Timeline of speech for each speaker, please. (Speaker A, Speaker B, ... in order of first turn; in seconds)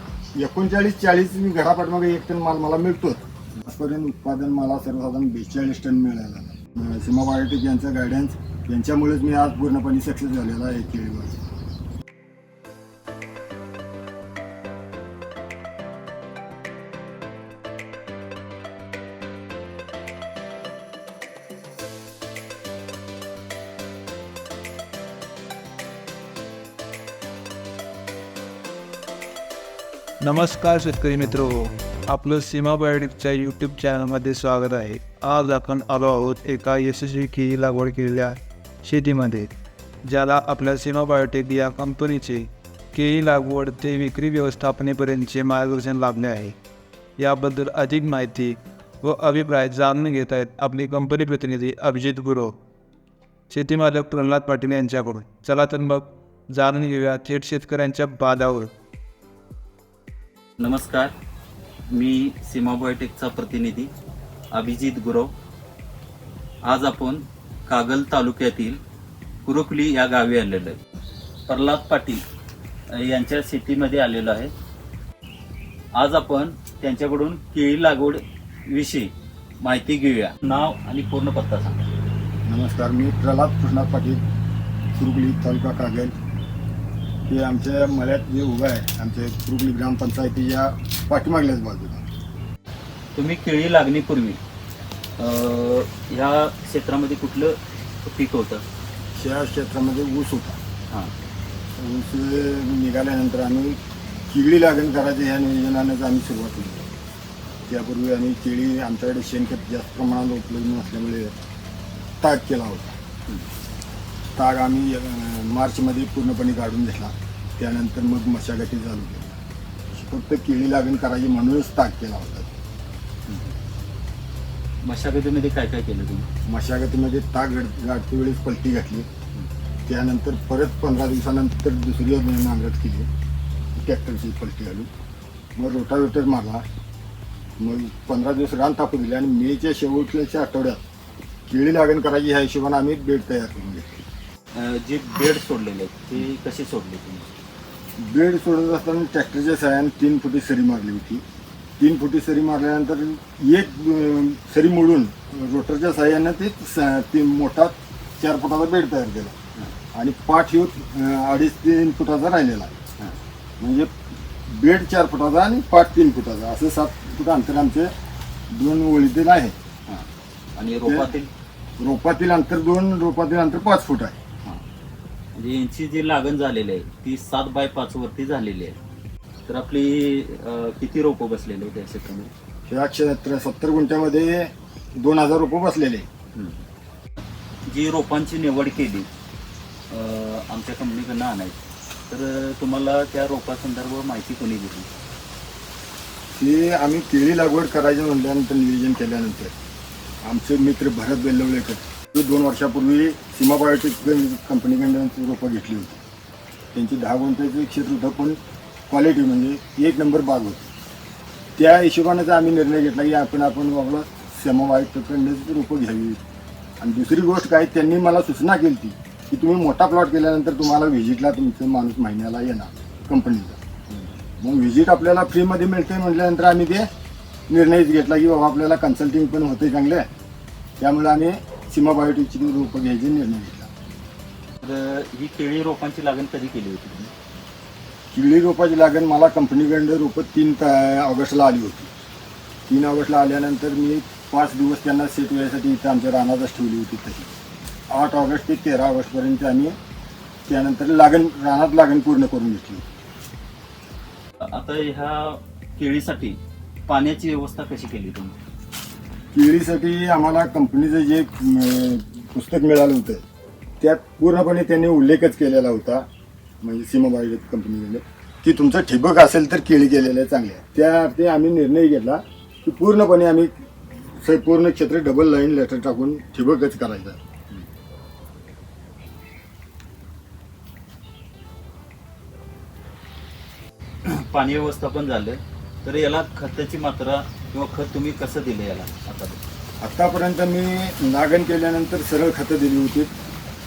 Speaker A: 0.4-11.5, 82.5-84.2, 85.0-86.1, 87.3-92.1, 99.2-100.6, 101.8-106.9, 107.7-111.3, 112.2-113.0, 114.3-119.4, 119.9-122.5, 126.5-129.1, 129.9-133.1, 133.8-134.9, 135.6-136.7, 137.6-140.8, 141.5-144.0, 148.0-151.2, 151.8-159.3, 159.9-162.7, 163.6-163.9, 164.5-167.9, 168.5-169.6, 170.8-171.1, 171.8-174.2, 182.7-186.1, 196.3-199.5, 200.2-206.0, 206.7-210.7, 211.6-216.2, 216.8-223.6, 224.4-226.9, 227.5-230.1, 230.8-233.7, 238.1-241.9, 242.7-247.3, 247.9-249.8, 250.5-252.8, 259.3-263.2, 263.8-266.1, 266.6-277.2, 289.8-293.1
Speaker B: 30.2-39.5, 40.0-46.6, 47.2-52.5, 53.5-58.7
Speaker C: 60.6-61.1, 61.9-63.9, 64.5-65.3, 66.7-68.8, 69.5-70.8, 71.5-72.2, 72.9-74.5, 76.0-81.9, 93.2-94.4, 95.2-98.6, 123.3-123.5, 124.8-126.3, 144.6-147.3, 169.9-171.3, 175.3-178.8, 179.5-182.3, 186.3-186.7, 187.7-189.1, 189.9-194.9, 234.6-237.1, 254.4-258.4, 284.1-289.4